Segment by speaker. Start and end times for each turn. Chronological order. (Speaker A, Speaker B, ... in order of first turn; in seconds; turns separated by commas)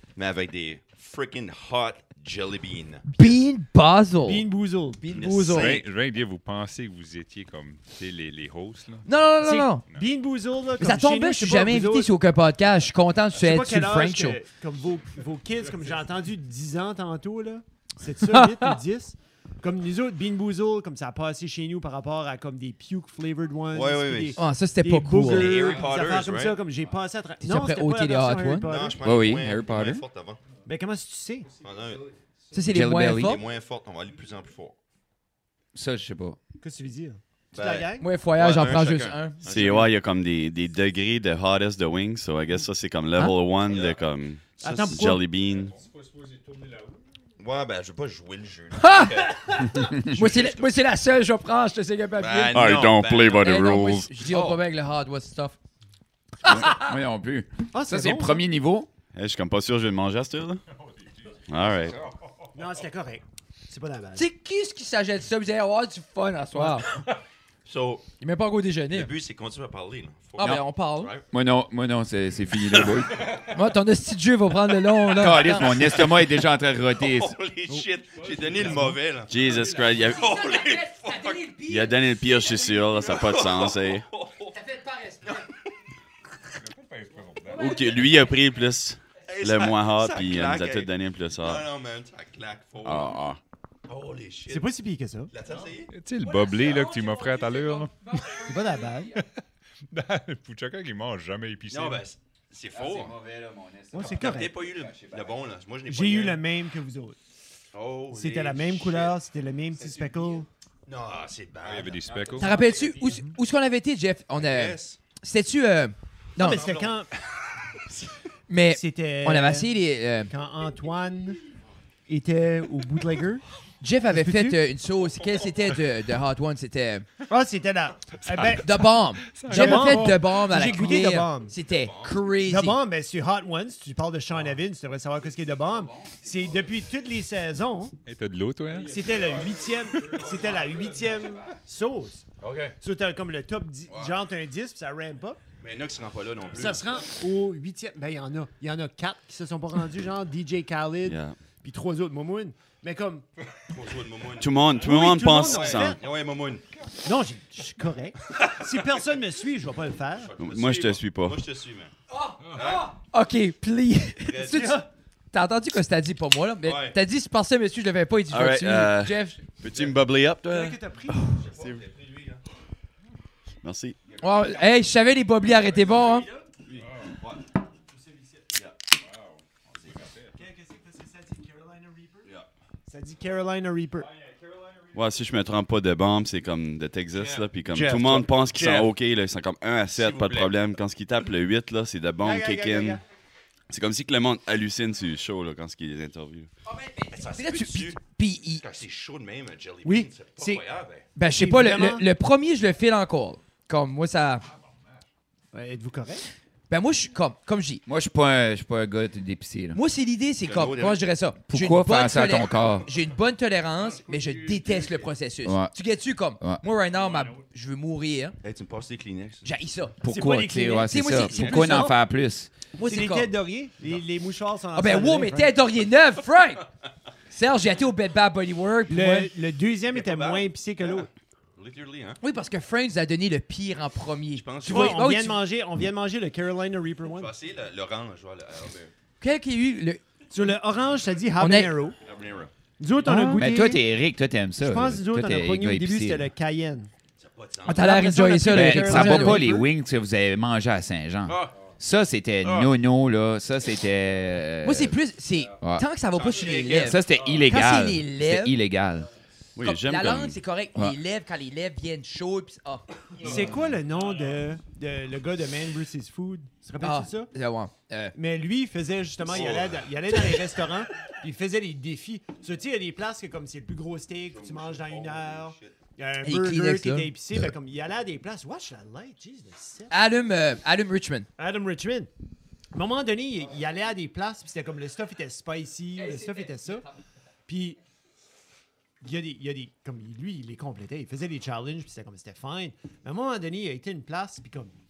Speaker A: 0.2-3.1, Speaker B: 3.1-4.5, Speaker C: 4.2-5.3, Speaker B: 5.0-5.8, Speaker A: 5.1-5.9, Speaker D: 5.5-9.1, Speaker B: 9.1-9.8, Speaker C: 9.4-12.1, Speaker B: 10.8-14.4, Speaker C: 13.4-29.0, Speaker B: 18.3-18.8, Speaker A: 23.7-24.4, Speaker B: 24.4-25.6, Speaker A: 25.2-26.6, Speaker B: 27.4-28.7, Speaker A: 28.6-30.4, Speaker E: 29.0-30.0, Speaker C: 30.6-31.6, Speaker A: 31.6-32.1, Speaker B: 32.5-33.4, Speaker E: 32.7-33.4, Speaker A: 33.0-34.8, Speaker E: 35.7-36.4, Speaker C: 36.6-38.1, Speaker A: 37.5-39.9, Speaker B: 38.0-39.4, Speaker F: 39.4-45.8, Speaker A: 43.7-44.0, Speaker C: 44.6-45.2, Speaker A: 47.4-50.7, Speaker B: 48.7-52.6, Speaker A: 52.2-53.5, Speaker F: 52.5-54.1, Speaker B: 53.4-55.6, Speaker E: 54.2-54.6, Speaker B: 56.5-56.9, Speaker E: 56.5-58.9, Speaker C: 57.7-58.4, Speaker F: 59.1-60.6, Speaker F: 61.5-62.0, Speaker C: 62.5-64.2, Speaker B: 64.2-66.9, Speaker A: 67.6-68.1, Speaker B: 68.2-69.1, Speaker A: 68.9-71.3, Speaker B: 70.4-71.1, Speaker E: 71.3-73.4, Speaker B: 73.5-75.8, Speaker E: 75.1-77.4, Speaker A: 75.6-76.2, Speaker A: 77.0-81.5, Speaker F: 79.3-80.3, Speaker B: 80.0-82.4, Speaker F: 81.7-84.0, Speaker A: 82.7-84.6, Speaker B: 84.5-85.4, Speaker D: 86.6-87.8, Speaker F: 87.6-91.6, Speaker A: 89.3-93.2, Speaker F: 92.8-93.4, Speaker A: 93.9-94.7, Speaker C: 94.5-95.3, Speaker A: 95.3-95.9, Speaker D: 95.9-98.5, Speaker C: 98.4-99.2, Speaker D: 99.9-102.1, Speaker A: 101.7-103.2, Speaker E: 102.7-105.3, Speaker C: 103.9-104.6, Speaker A: 104.0-106.4, Speaker C: 105.9-107.2, Speaker A: 107.7-109.2, Speaker C: 108.1-110.5, Speaker A: 110.9-112.9, Speaker D: 111.6-112.7, Speaker B: 112.4-116.6, Speaker C: 113.0-113.4, Speaker A: 114.4-115.0, Speaker C: 116.4-117.1, Speaker A: 116.4-117.0, Speaker B: 118.5-120.3, Speaker C: 118.7-119.7, Speaker C: 120.3-121.4, Speaker C: 122.1-123.4, Speaker B: 123.8-127.1, Speaker C: 124.1-124.6, Speaker C: 127.3-128.8, Speaker D: 128.2-128.6, Speaker B: 128.6-132.8, Speaker D: 129.2-130.2, Speaker C: 129.5-131.6, Speaker A: 131.6-132.3, Speaker C: 132.4-137.9, Speaker D: 138.1-139.3, Speaker C: 138.8-142.3, Speaker A: 142.4-142.7, Speaker C: 142.8-145.4, Speaker A: 145.6-147.0, Speaker C: 146.6-153.3, Speaker F: 151.1-151.4, Speaker A: 153.7-154.8, Speaker F: 154.4-155.9, Speaker C: 154.8-156.0, Speaker A: 155.4-156.6, Speaker C: 157.0-160.3, Speaker A: 160.1-161.9, Speaker F: 160.4-161.4, Speaker B: 162.1-169.4, Speaker A: 162.5-162.9, Speaker A: 164.2-164.8, Speaker C: 164.5-164.9, Speaker A: 166.6-167.0, Speaker F: 168.3-171.8, Speaker C: 170.5-171.4, Speaker A: 171.3-172.4, Speaker F: 173.6-174.0, Speaker B: 174.2-176.3, Speaker A: 176.0-177.4, Speaker C: 177.9-178.4, Speaker A: 178.5-178.9, Speaker A: 179.7-180.1, Speaker C: 180.3-182.3, Speaker C: 182.9-184.2, Speaker F: 184.9-193.0, Speaker A: 187.1-188.9, Speaker A: 189.9-190.5, Speaker C: 192.2-193.0, Speaker F: 193.7-196.5, Speaker B: 196.8-198.6, Speaker A: 197.0-198.0, Speaker A: 198.5-201.1, Speaker C: 199.8-200.6, Speaker B: 201.2-204.4, Speaker C: 201.2-202.1, Speaker C: 205.5-206.2, Speaker B: 206.7-207.8, Speaker E: 207.9-209.8, Speaker B: 209.7-218.4, Speaker A: 210.4-211.1, Speaker E: 211.5-212.9, Speaker E: 215.4-215.7, Speaker A: 218.4-219.5, Speaker B: 219.4-220.0, Speaker C: 220.0-222.0, Speaker E: 220.0-222.5, Speaker B: 220.8-221.9, Speaker B: 222.8-223.3, Speaker C: 222.8-225.6, Speaker B: 224.7-226.6, Speaker B: 227.3-229.3, Speaker C: 228.9-231.1, Speaker A: 229.9-232.2, Speaker B: 232.2-235.4, Speaker A: 234.3-235.1, Speaker C: 234.6-237.3, Speaker A: 237.1-238.9, Speaker B: 239.2-240.0, Speaker C: 240.3-242.0, Speaker B: 241.4-241.7, Speaker A: 242.1-242.5, Speaker C: 242.8-243.8, Speaker B: 243.1-243.4, Speaker E: 243.3-246.3, Speaker C: 244.6-246.9, Speaker A: 247.2-248.2, Speaker B: 247.7-249.5, Speaker C: 247.8-249.7, Speaker E: 248.5-255.0, Speaker A: 251.3-251.6, Speaker A: 252.4-252.7, Speaker B: 254.6-258.6, Speaker E: 255.6-255.9, Speaker A: 256.1-257.0, Speaker E: 256.6-259.1, Speaker F: 259.6-260.4, Speaker B: 259.6-262.9, Speaker C: 263.2-267.3, Speaker B: 266.8-268.1, Speaker C: 268.1-279.9, Speaker A: 269.2-270.4, Speaker A: 274.3-275.8, Speaker B: 276.2-277.1, Speaker B: 279.9-281.3, Speaker C: 281.4-282.1, Speaker C: 282.7-286.9, Speaker B: 286.1-286.8, Speaker C: 287.5-287.8, Speaker C: 289.0-294.7